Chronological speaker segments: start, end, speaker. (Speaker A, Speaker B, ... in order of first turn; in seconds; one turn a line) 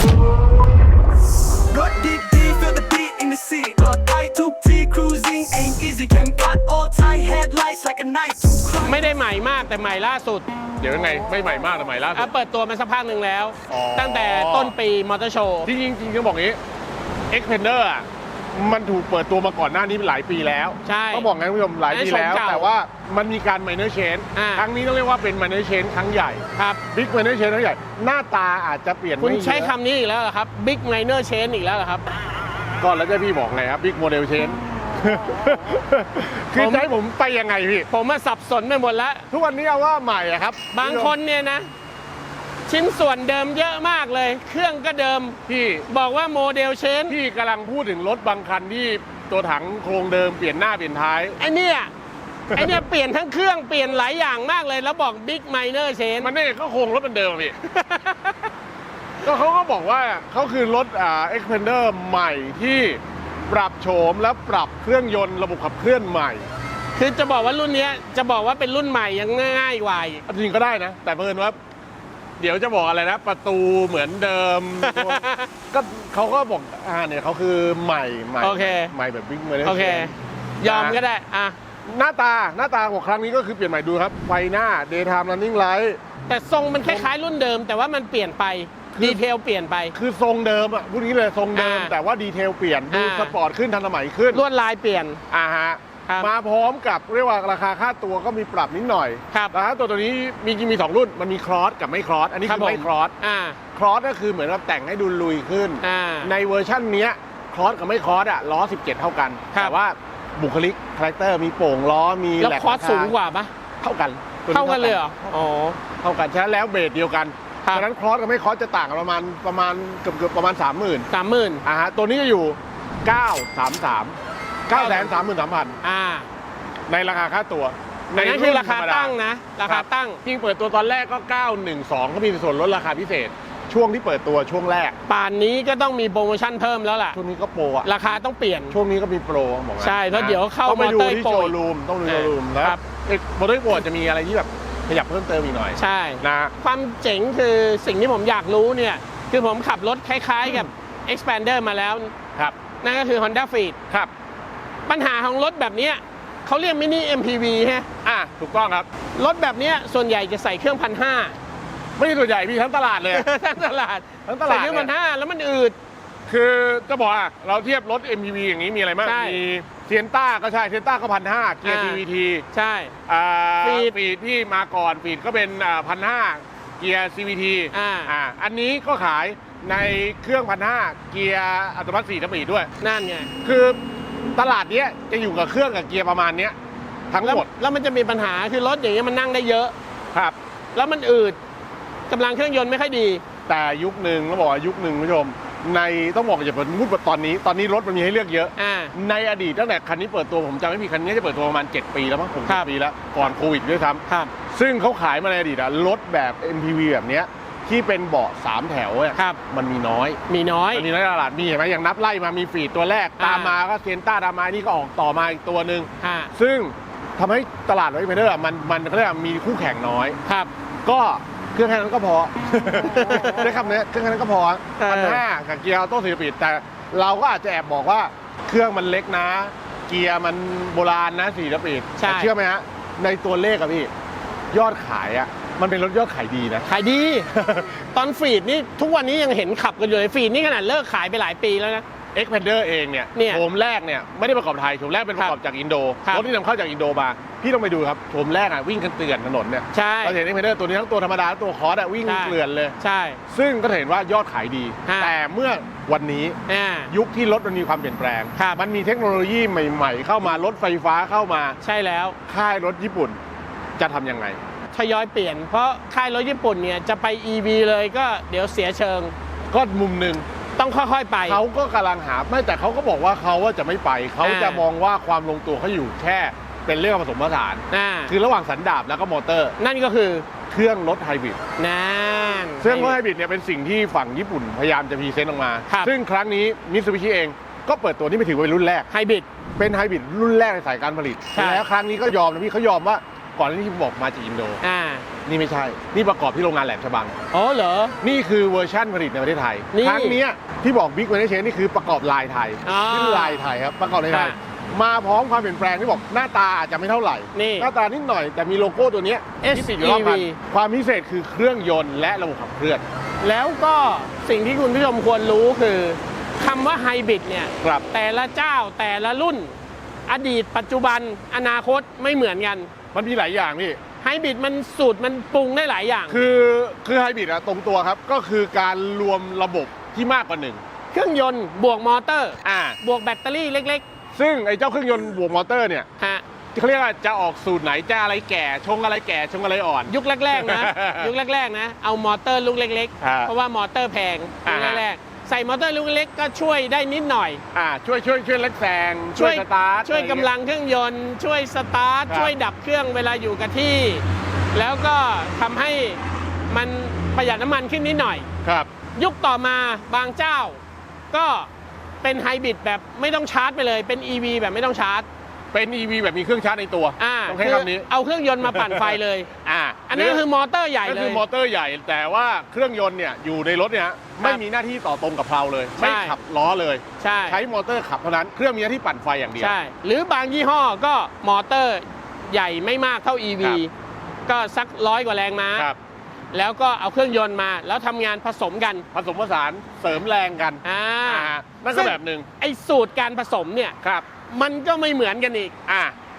Speaker A: 1.7-9.1
Speaker B: 8.8-10.5
Speaker C: 10.8-12.3
Speaker B: 12.1-15.7
Speaker C: 13.7-14.7
Speaker C: 15.7-16.6
Speaker C: 17.3-29.7
Speaker B: 20.9-21.3
Speaker B: 21.9-22.7
Speaker B: 24.4-24.7
Speaker B: 26.6-26.8
Speaker B: 29.2-32.1
Speaker C: 32.8-37.9
Speaker B: 36.5-36.9
Speaker B: 37.9-39.3
Speaker C: 39.3-41.2
Speaker B: 40.8-41.7
Speaker B: 42.7-47.2
Speaker C: 45.5-45.9
Speaker C: 47.1-51.4
Speaker B: 51.4-51.9
Speaker C: 52.5-52.8
Speaker B: 52.5-56.3
Speaker C: 56.2-57.6
Speaker B: 57.6-58.4
Speaker C: 59.2-66.5
Speaker B: 67.0-70.2
Speaker C: 70.3-71.6
Speaker C: 72.4-81.0
Speaker B: 74.8-75.5
Speaker B: 78.4-78.9
Speaker B: 79.6-81.6
Speaker C: 81.8-86.0
Speaker B: 86.3-90.0
Speaker C: 86.8-87.1
Speaker C: 88.9-89.2
Speaker C: 89.9-94.4
Speaker B: 91.5-91.9
Speaker B: 92.9-93.4
Speaker B: 94.3-95.2
Speaker C: 95.3-103.1
Speaker B: 102.5-103.6
Speaker C: 103.7-113.2
Speaker B: 105.8-106.3
Speaker B: 112.4-113.5
Speaker C: 113.8-115.1
Speaker B: 114.5-115.8
Speaker C: 116.0-121.1
Speaker B: 121.1-121.7
Speaker C: 121.6-125.8
Speaker B: 124.7-125.2
Speaker B: 125.8-126.3
Speaker C: 126.9-135.0
Speaker B: 128.2-130.2
Speaker B: 135.1-137.2
Speaker C: 137.1-137.9
Speaker B: 137.8-138.8
Speaker C: 138.7-146.5
Speaker B: 139.8-141.5
Speaker B: 142.1-142.8
Speaker B: 145.8-152.1
Speaker B: 152.8-153.8
Speaker B: 154.9-157.9
Speaker C: 158.0-158.9
Speaker B: 159.2-161.4
Speaker C: 162.0-163.3
Speaker B: 163.1-165.8
Speaker C: 164.3-164.9
Speaker C: 166.3-172.4
Speaker B: 169.0-169.4
Speaker B: 171.6-172.9
Speaker C: 173.1-182.7
Speaker B: 173.6-173.9
Speaker B: 177.7-178.1
Speaker B: 182.8-183.3
Speaker C: 183.4-183.8
Speaker C: 184.4-186.6
Speaker C: 187.1-187.5
Speaker B: 187.2-189.7
Speaker B: 190.7-191.4
Speaker B: 192.1-193.2
Speaker C: 193.5-210.2
Speaker B: 198.6-199.0
Speaker B: 204.1-204.3
Speaker B: 209.2-209.4
Speaker B: 210.3-210.9
Speaker C: 210.7-220.2
Speaker B: 213.2-213.6
Speaker B: 216.0-216.3
Speaker B: 220.3-220.5
Speaker C: 220.8-233.9
Speaker B: 222.8-223.5
Speaker B: 224.8-225.2
Speaker B: 232.0-232.3
Speaker C: 234.5-236.7
Speaker B: 236.7-237.3
Speaker C: 237.3-237.7
Speaker B: 237.9-241.8
Speaker C: 242.1-252.8
Speaker B: 243.2-243.4
Speaker B: 249.7-250.2
Speaker B: 252.1-253.2
Speaker C: 253.3-256.4
Speaker B: 254.8-255.1
Speaker B: 256.5-256.9
Speaker C: 256.9-261.6
Speaker B: 258.4-258.6
Speaker B: 261.6-262.2
Speaker C: 262.3-263.2
Speaker C: 263.8-264.4
Speaker B: 264.7-269.1
Speaker C: 269.5-270.3
Speaker B: 270.6-271.4
Speaker C: 271.2-279.6
Speaker B: 274.2-274.6
Speaker B: 277.7-278.1
Speaker B: 279.6-280.3
Speaker C: 280.5-281.4
Speaker B: 281.6-283.0
Speaker C: 282.6-288.9
Speaker B: 285.7-285.9
Speaker B: 288.9-289.3
Speaker C: 289.6-294.6
Speaker B: 291.3-291.6
Speaker B: 294.6-295.1
Speaker C: 295.2-297.1
Speaker B: 297.3-298.0
Speaker C: 298.0-312.8
Speaker B: 299.7-300.2
Speaker B: 302.6-303.5
Speaker B: 304.1-304.4
Speaker B: 307.3-307.7
Speaker B: 309.4-310.4
Speaker B: 313.2-319.6
Speaker C: 317.6-317.9
Speaker B: 320.1-322.7
Speaker C: 322.9-323.8
Speaker B: 324.0-326.2
Speaker C: 326.1-330.6
Speaker B: 330.9-333.8
Speaker C: 332.4-332.8
Speaker C: 334.1-335.9
Speaker B: 336.0-336.2
Speaker C: 336.5-341.1
Speaker B: 339.9-347.4
Speaker C: 343.0-343.3
Speaker C: 344.4-344.9
Speaker C: 347.5-350.3
Speaker B: 349.2-358.3
Speaker C: 352.1-352.3
Speaker C: 358.4-358.7
Speaker B: 359.0-360.6
Speaker B: 361.1-361.5
Speaker B: 362.0-365.1
Speaker C: 365.5-367.9
Speaker B: 367.0-369.3
Speaker C: 368.4-370.2
Speaker B: 369.9-371.2
Speaker C: 370.8-379.6
Speaker B: 375.8-376.2
Speaker B: 377.0-377.4
Speaker B: 379.4-383.7
Speaker B: 384.3-385.7
Speaker B: 386.3-388.9
Speaker C: 388.9-392.3
Speaker B: 390.6-395.6
Speaker C: 393.8-394.1
Speaker C: 395.7-396.0